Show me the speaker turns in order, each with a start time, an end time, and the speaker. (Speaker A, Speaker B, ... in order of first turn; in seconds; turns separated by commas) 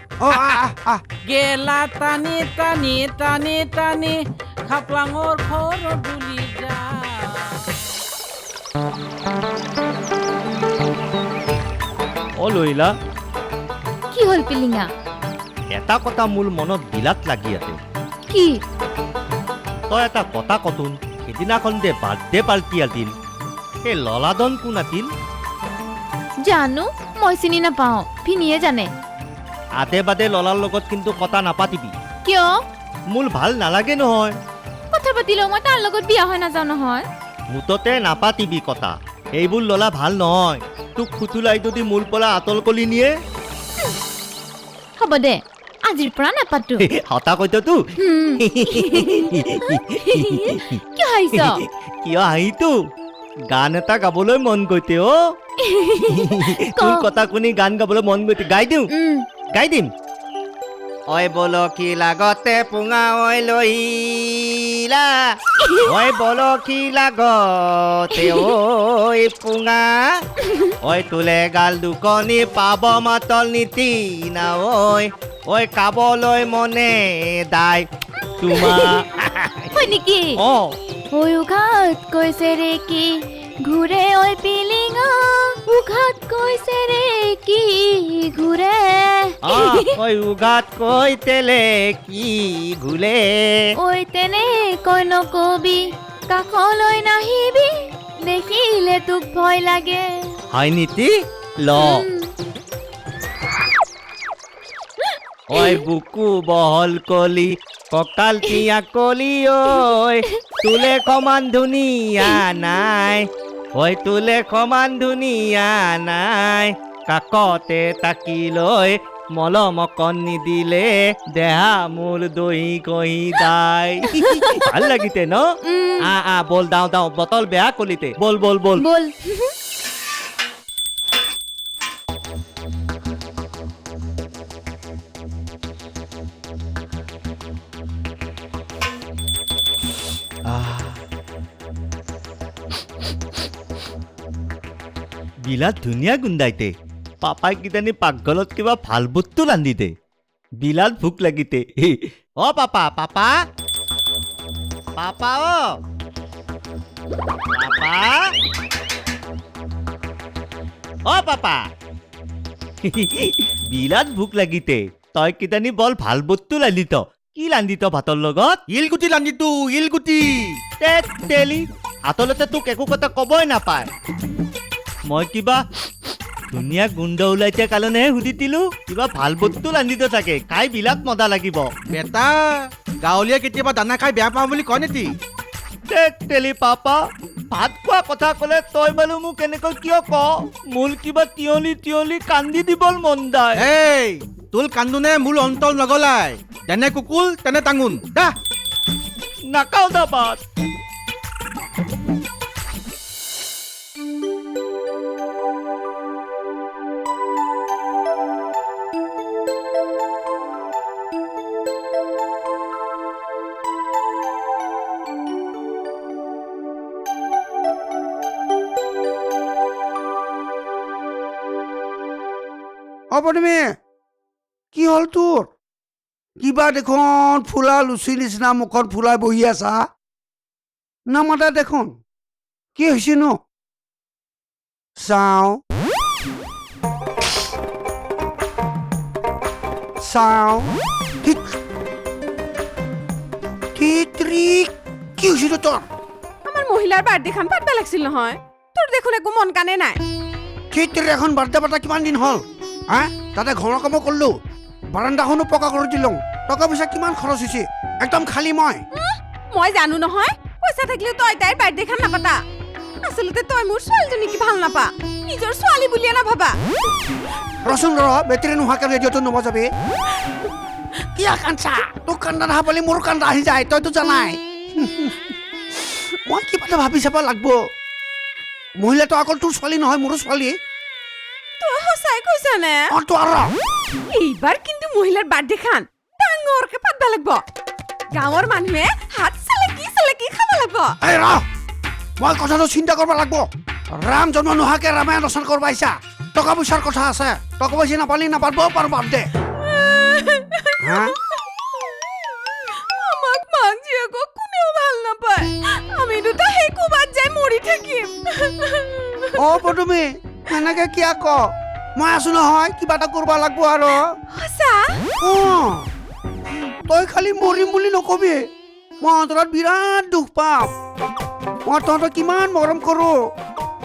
Speaker A: 0.2-1.0, Speaker B: 0.3-0.6, Speaker B: 1.2-7.7, Speaker C: 12.4-12.9, Speaker D: 14.1-14.9, Speaker C: 15.7-17.8, Speaker D: 18.3-18.6, Speaker C: 19.9-23.1, Speaker C: 23.8-25.1, Speaker D: 26.4-28.9, Speaker C: 29.8-31.9, Speaker D: 32.2-32.6, Speaker C: 33.1-34.4, Speaker D: 34.9-37.0, Speaker C: 37.5-43.1, Speaker D: 45.0-46.9, Speaker C: 46.8-47.8, Speaker D: 48.0-51.6, Speaker C: 48.4-50.8, Speaker C: 51.3-52.7, Speaker C: 53.5-55.1, Speaker D: 55.6-57.0, Speaker C: 56.1-58.9, Speaker D: 58.9-59.2, Speaker C: 59.5-59.9, Speaker C: 61.1-65.1, Speaker D: 65.6-65.9, Speaker C: 65.8-69.9, Speaker C: 70.8-77.8, Speaker C: 78.4-79.3, Speaker D: 79.7-80.4, Speaker C: 80.4-80.8, Speaker D: 81.1-90.0, Speaker C: 89.4-93.7, Speaker D: 93.8-100.4, Speaker C: 100.5-102.0, Speaker D: 101.8-102.3, Speaker C: 105.5-125.4, Speaker D: 124.1-124.7, Speaker D: 125.7-126.0, Speaker C: 126.0-128.9, Speaker D: 128.8-129.5, Speaker C: 140.5-141.0, Speaker C: 145.4-149.9, Speaker C: 150.6-153.3, Speaker C: 155.0-155.6, Speaker C: 157.5-158.1, Speaker C: 161.1-161.6, Speaker C: 162.8-168.6, Speaker E: 168.7-170.6, Speaker C: 170.8-173.9, Speaker C: 175.1-175.6, Speaker C: 176.5-181.7, Speaker E: 181.9-182.4, Speaker E: 183.0-185.1, Speaker C: 185.9-186.9, Speaker C: 187.5-193.7, Speaker E: 193.6-198.3, Speaker C: 199.5-200.4, Speaker A: 223.1-223.7, Speaker A: 224.7-225.5, Speaker A: 226.4-229.8, Speaker A: 231.1-231.9, Speaker A: 232.7-233.4, Speaker A: 235.0-235.6, Speaker A: 240.0-240.7, Speaker A: 243.8-245.8, Speaker F: 246.4-250.0, Speaker A: 250.7-254.4, Speaker A: 254.9-258.8, Speaker F: 258.9-262.4, Speaker F: 263.0-266.6, Speaker A: 267.6-269.7, Speaker A: 271.1-275.2, Speaker A: 276.2-277.6, Speaker A: 278.8-280.6, Speaker F: 281.6-282.9, Speaker A: 282.9-283.5, Speaker F: 284.1-287.4, Speaker F: 288.1-290.9, Speaker A: 291.0-291.4, Speaker A: 292.2-299.3, Speaker F: 299.6-300.8, Speaker A: 300.8-301.2, Speaker F: 302.2-309.4, Speaker A: 309.4-314.0, Speaker F: 314.3-315.1, Speaker A: 315.2-315.9, Speaker A: 316.9-318.4, Speaker A: 319.0-320.7, Speaker A: 321.6-323.3